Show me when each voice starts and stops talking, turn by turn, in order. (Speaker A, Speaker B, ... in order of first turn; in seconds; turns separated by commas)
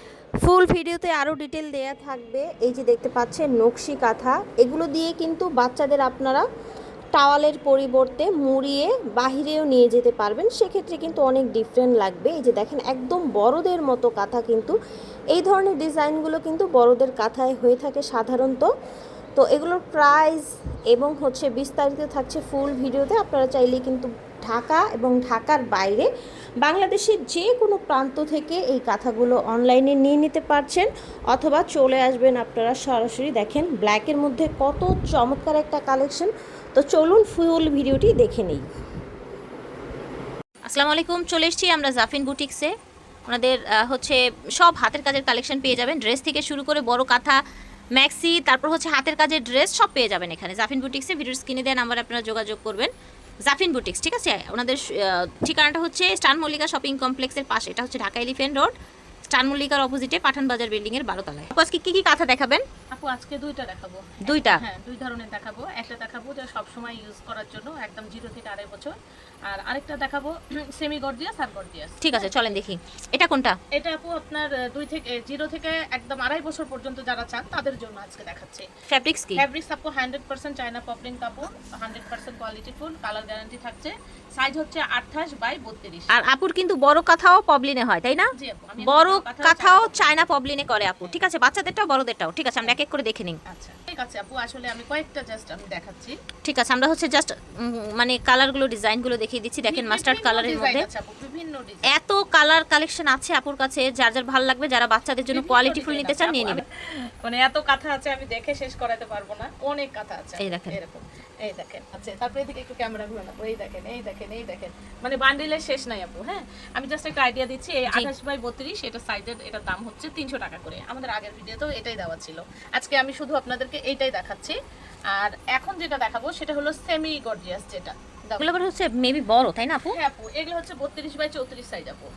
Speaker A: 0.4-6.4, Speaker A: 7.1-14.7, Speaker A: 15.3-18.7, Speaker A: 19.4-26.1, Speaker A: 26.6-38.6, Speaker B: 40.6-42.7, Speaker B: 43.3-47.4, Speaker B: 48.0-52.9, Speaker B: 53.5-58.7, Speaker B: 59.3-62.6, Speaker C: 62.9-72.6, Speaker B: 64.2-64.6, Speaker B: 72.0-73.5, Speaker C: 73.7-78.7, Speaker B: 78.9-79.4, Speaker C: 79.3-86.1, Speaker B: 86.1-93.4, Speaker C: 88.4-90.3, Speaker C: 93.5-96.2, Speaker B: 96.4-100.9, Speaker C: 99.6-101.9, Speaker B: 101.9-106.6, Speaker C: 105.3-124.5, Speaker B: 110.4-110.8, Speaker C: 125.1-128.6, Speaker B: 128.4-130.0, Speaker C: 129.9-132.1